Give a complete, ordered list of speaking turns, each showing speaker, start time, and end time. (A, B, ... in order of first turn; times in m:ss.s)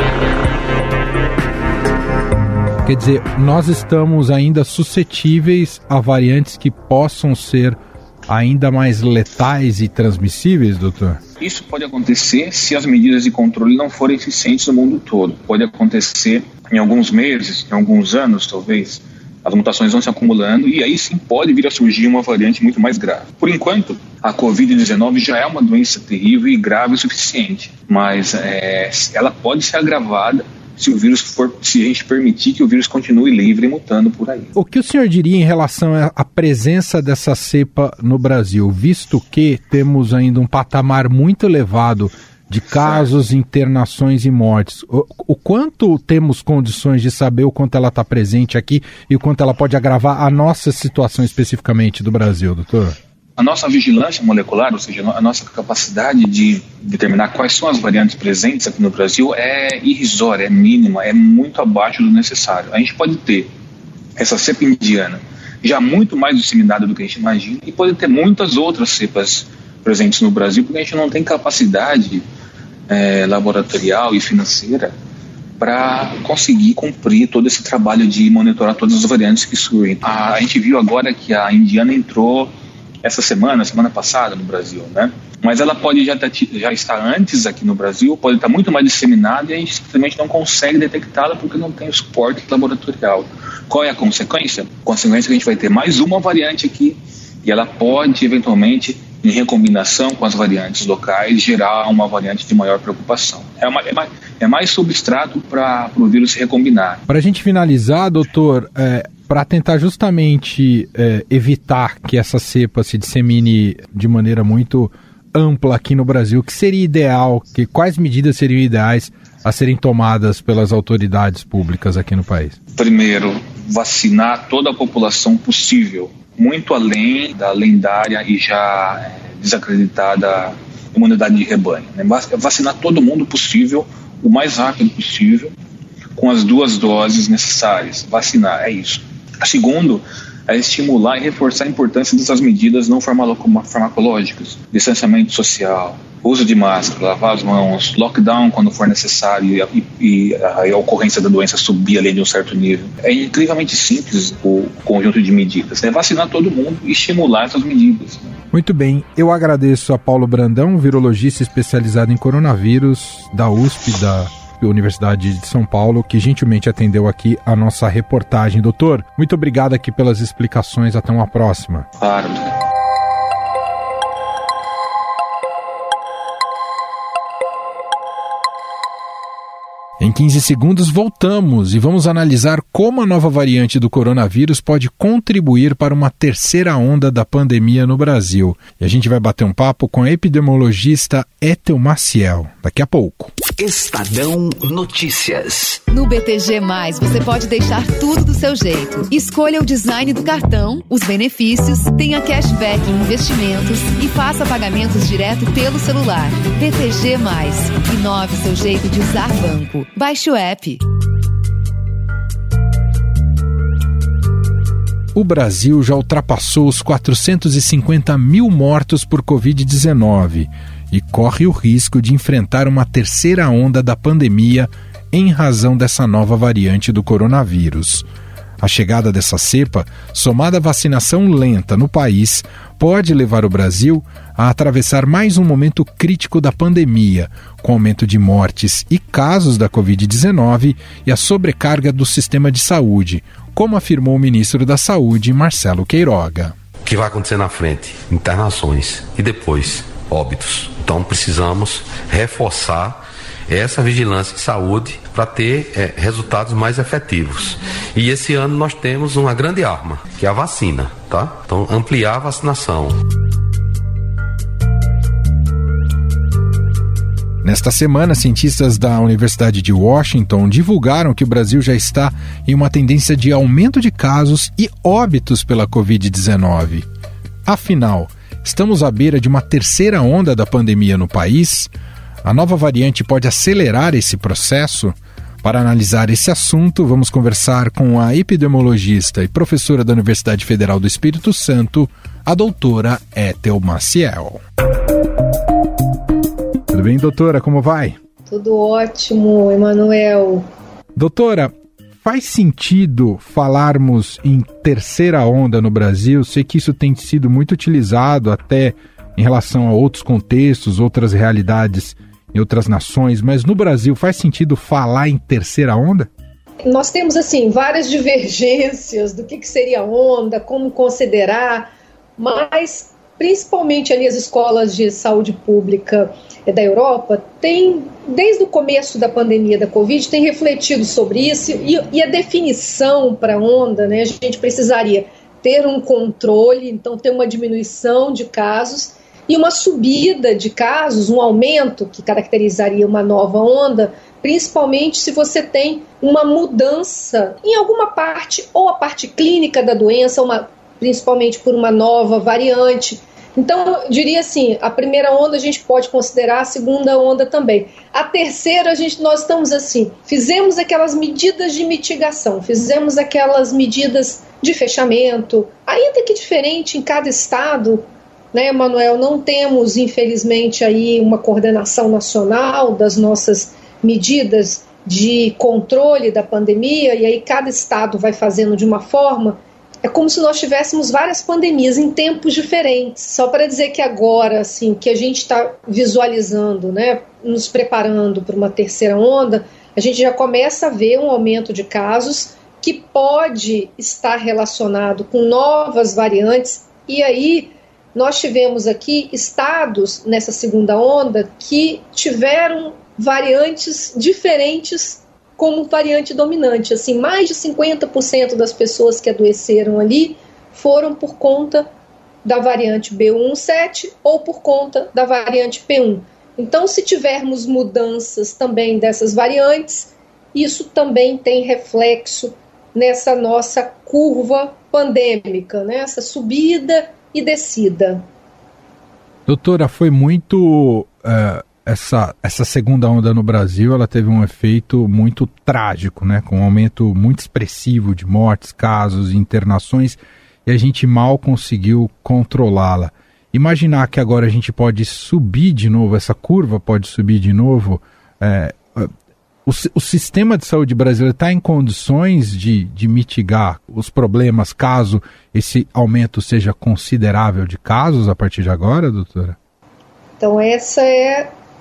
0:02.8-0:11.2 A
0:11.4-0:34.5 B
0:34.5-0:53.0 A
0:53.4-1:03.5 B
1:04.2-1:12.2 B
1:12.9-1:14.9 B
1:15.6-1:47.0 B
1:47.1-2:02.6 A
2:02.8-2:15.5 B
2:16.2-2:38.4 B
2:38.5-2:51.9 A
2:52.0-2:52.5 B
3:00.0-3:13.3 A
3:13.6-3:15.8 C
3:15.9-3:30.8 D
3:35.1-3:48.0 A
3:48.6-4:06.5 A
4:06.8-4:23.0 E
4:27.4-4:36.8 A
4:37.4-4:41.7 A
4:42.2-4:54.4 A
4:56.7-4:58.0 A
4:58.3-5:00.5 F
5:01.0-5:16.1 A
5:16.6-6:51.7 F
6:52.2-7:08.0 F
7:09.3-7:28.9 A
7:29.4-7:39.4 A
7:40.2-7:41.3 F